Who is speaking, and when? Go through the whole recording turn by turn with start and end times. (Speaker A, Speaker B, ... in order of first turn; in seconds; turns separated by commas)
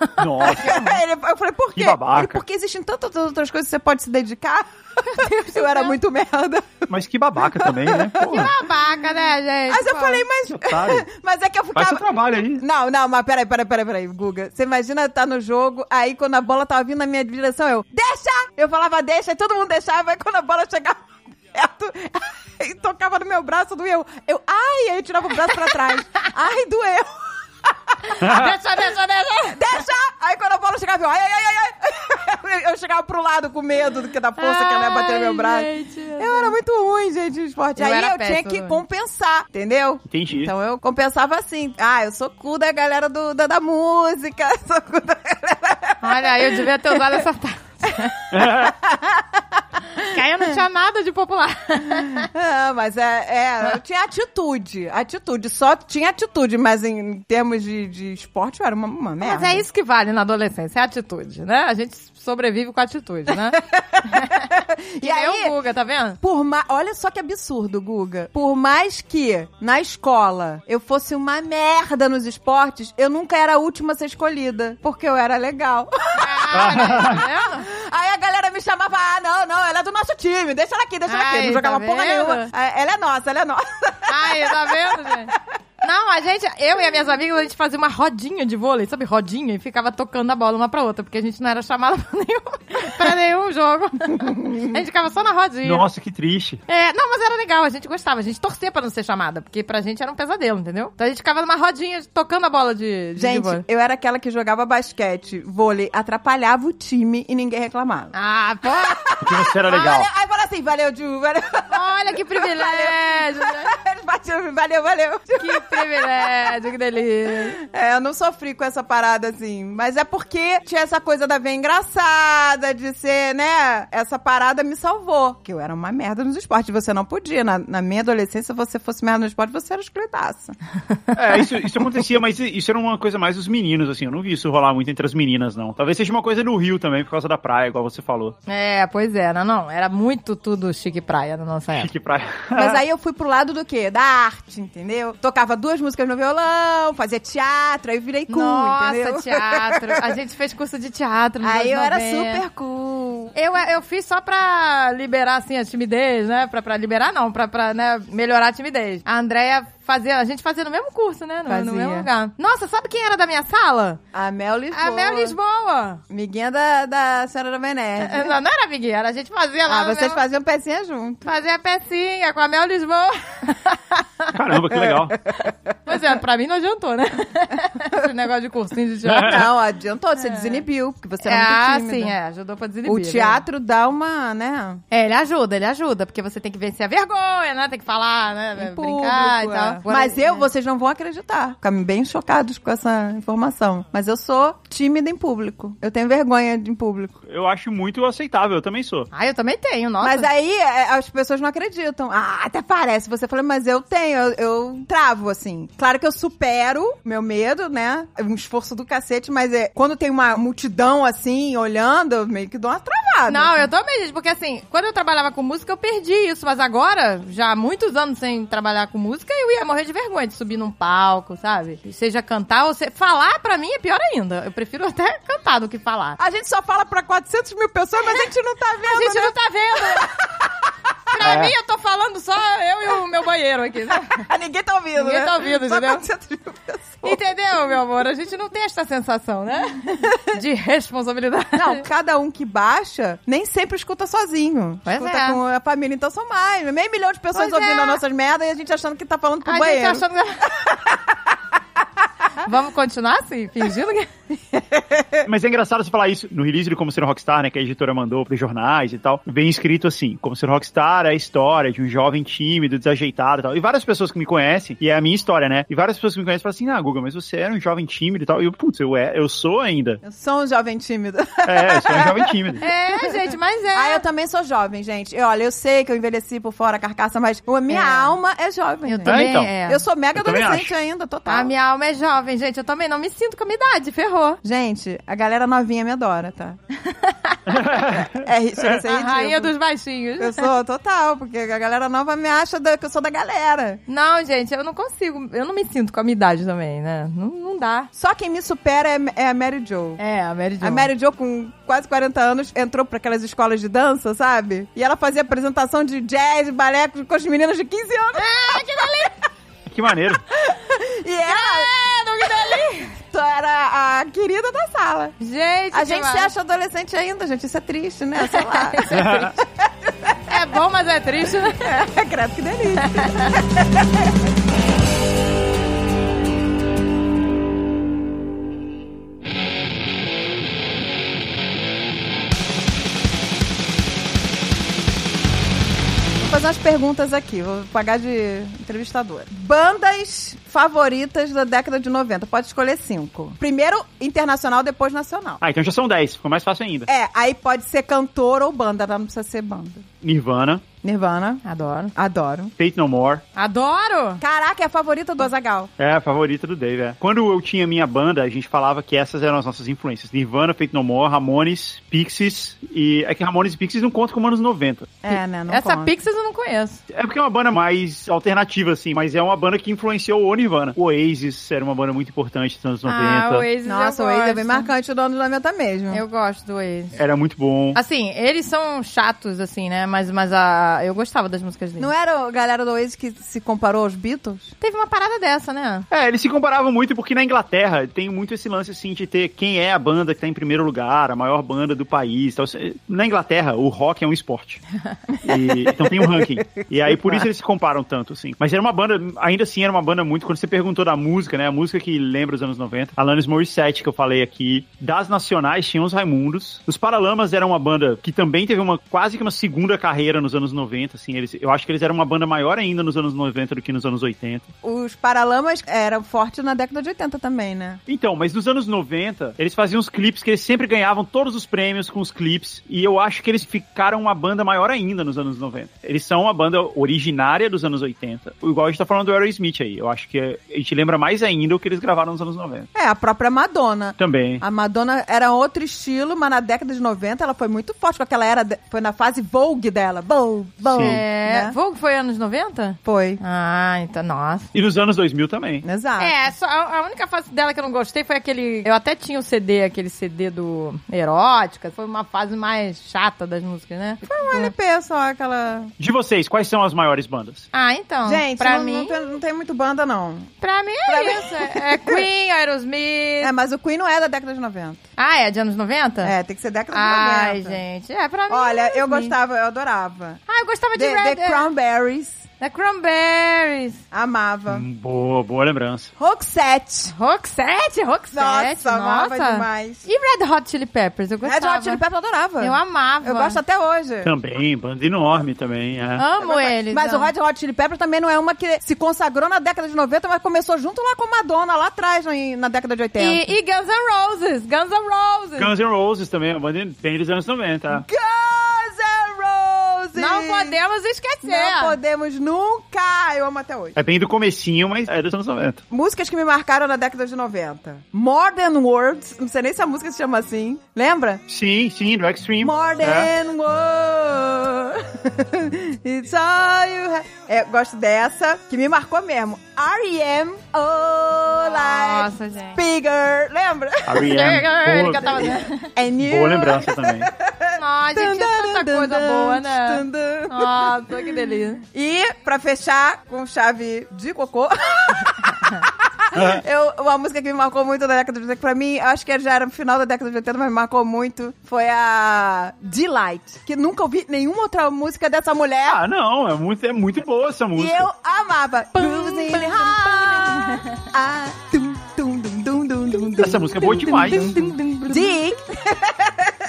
Speaker A: 0.2-0.9, Speaker B: 0.4-8.5, Speaker C: 0.5-0.8, Speaker A: 1.8-2.4, Speaker C: 5.0-6.0, Speaker A: 6.9-8.5, Speaker C: 8.2-10.2, Speaker B: 9.7-28.1, Speaker A: 10.5-11.0, Speaker A: 11.7-12.6, Speaker C: 28.2-29.8, Speaker A: 28.2-28.6, Speaker B: 29.5-47.2, Speaker C: 34.4-36.5, Speaker C: 37.8-38.8, Speaker A: 40.1-40.5, Speaker C: 46.0-48.1, Speaker A: 48.3-48.8, Speaker B: 48.4-50.5, Speaker C: 50.0-52.3, Speaker B: 52.1-59.6, Speaker C: 59.2-64.5, Speaker B: 63.5-65.5, Speaker C: 65.0-66.2, Speaker B: 66.2-85.1, Speaker C: 76.1-77.7, Speaker A: 76.5-77.2, Speaker C: 81.1-82.5, Speaker C: 84.1-95.8, Speaker B: 94.2-94.7, Speaker A: 95.6-96.6, Speaker C: 96.7-103.6, Speaker B: 103.2-108.1, Speaker C: 108.1-109.0, Speaker B: 108.7-116.5, Speaker A: 109.2-110.1, Speaker C: 111.7-113.7, Speaker C: 115.4-117.6, Speaker B: 117.5-130.5, Speaker A: 131.1-138.3, Speaker C: 138.5-141.9, Speaker A: 141.7-142.8, Speaker B: 142.5-150.1, Speaker C: 148.3-152.4, Speaker B: 151.4-153.3, Speaker C: 153.3-164.0, Speaker B: 161.5-162.1, Speaker B: 164.1-165.3, Speaker C: 164.7-166.0, Speaker B: 166.1-168.3, Speaker C: 168.0-170.2, Speaker B: 169.7-171.2, Speaker C: 171.2-174.3, Speaker A: 174.3-175.2, Speaker B: 175.0-175.5, Speaker C: 175.8-179.5, Speaker A: 179.0-179.4, Speaker B: 179.1-182.1, Speaker C: 180.2-180.6, Speaker C: 181.2-183.4, Speaker B: 182.8-184.8, Speaker C: 184.9-190.4, Speaker B: 188.6-197.1, Speaker A: 197.2-199.1, Speaker C: 199.1-200.3, Speaker B: 200.0-213.7, Speaker C: 213.3-226.2, Speaker B: 226.2-229.3, Speaker C: 228.9-230.1, Speaker B: 229.9-230.3, Speaker C: 231.1-234.3, Speaker A: 231.2-231.5, Speaker B: 234.2-237.2, Speaker C: 234.9-236.0, Speaker C: 237.0-241.8, Speaker B: 241.5-250.0, Speaker C: 244.8-245.4, Speaker C: 247.3-248.0, Speaker C: 249.4-250.5, Speaker C: 252.4-254.1, Speaker B: 254.5-255.2, Speaker A: 255.2-270.0, Speaker B: 270.0-272.8, Speaker A: 271.4-272.6, Speaker C: 272.6-274.0, Speaker B: 273.7-281.5, Speaker C: 277.7-278.1, Speaker C: 278.9-279.8, Speaker A: 279.0-279.5, Speaker A: 280.1-280.7, Speaker C: 281.3-284.4, Speaker B: 284.4-286.6, Speaker C: 286.8-287.4, Speaker A: 287.5-288.8, Speaker B: 287.8-289.5, Speaker C: 288.9-290.5, Speaker B: 290.2-293.8, Speaker C: 293.9-297.9, Speaker B: 297.9-300.0, Speaker C: 300.0-300.9, Speaker B: 300.6-308.8, Speaker C: 308.1-309.1, Speaker A: 309.6-310.2, Speaker B: 310.3-311.7, Speaker C: 311.3-313.0, Speaker B: 313.1-315.1, Speaker C: 315.2-316.3, Speaker B: 315.7-320.1, Speaker C: 318.2-319.3, Speaker A: 318.9-319.3, Speaker C: 320.3-321.6, Speaker B: 321.6-323.9, Speaker C: 322.8-323.4, Speaker B: 336.2-345.4, Speaker A: 345.4-346.9, Speaker B: 346.9-349.9, Speaker A: 350.0-350.6, Speaker B: 350.8-351.4, Speaker C: 351.4-351.9, Speaker B: 351.9-352.5, Speaker A: 352.6-353.2, Speaker C: 353.3-354.2, Speaker B: 354.2-355.7, Speaker A: 355.8-364.9, Speaker B: 365.0-365.9, Speaker C: 365.1-366.8, Speaker A: 366.9-373.5, Speaker C: 372.9-374.7, Speaker B: 373.6-376.0, Speaker C: 375.9-377.0, Speaker A: 376.9-377.8, Speaker C: 377.7-381.9, Speaker B: 381.8-384.5, Speaker C: 384.6-385.9, Speaker A: 385.9-394.6, Speaker B: 395.1-397.2, Speaker A: 395.2-414.5, Speaker B: 414.6-417.8, Speaker A: 417.9-432.7, Speaker B: 432.7-441.5, Speaker A: 434.0-434.4, Speaker C: 440.7-444.5, Speaker A: 440.7-441.0, Speaker B: 442.8-443.2, Speaker A: 444.5-445.6, Speaker B: 445.6-446.2, Speaker C: 446.0-454.5, Speaker B: 454.0-455.7, Speaker A: 455.8-457.4, Speaker C: 457.5-459.1, Speaker B: 458.1-460.3, Speaker C: 460.4-463.3, Speaker B: 460.9-462.0, Speaker B: 463.2-464.8, Speaker C: 465.0-466.1, Speaker B: 466.0-467.6, Speaker C: 466.7-469.1, Speaker B: 468.3-470.2, Speaker C: 470.3-471.5, Speaker B: 470.7-472.2, Speaker C: 472.4-473.8, Speaker B: 473.9-474.6, Speaker A: 474.5-475.9, Speaker B: 476.0-476.9, Speaker C: 476.9-481.8, Speaker B: 478.1-479.8, Speaker B: 481.2-484.1, Speaker C: 482.4-483.4, Speaker A: 484.0-486.0, Speaker C: 486.0-487.1, Speaker B: 486.2-493.2, Speaker C: 493.0-495.5, Speaker A: 495.4-497.8, Speaker B: 497.7-500.6, Speaker C: 499.9-501.8, Speaker B: 501.2-503.8, Speaker A: 503.8-505.6, Speaker B: 505.7-511.2, Speaker A: 511.3-513.1, Speaker B: 512.4-524.1, Speaker C: 521.3-522.6, Speaker A: 523.9-525.3, Speaker C: 524.0-525.7, Speaker B: 525.7-545.8, Speaker A: 526.0-527.1, Speaker C: 527.6-531.6, Speaker A: 536.1-536.4, Speaker A: 545.7-547.9, Speaker B: 547.5-556.4, Speaker C: 548.7-550.8, Speaker C: 553.1-555.1, Speaker A: 553.2-554.5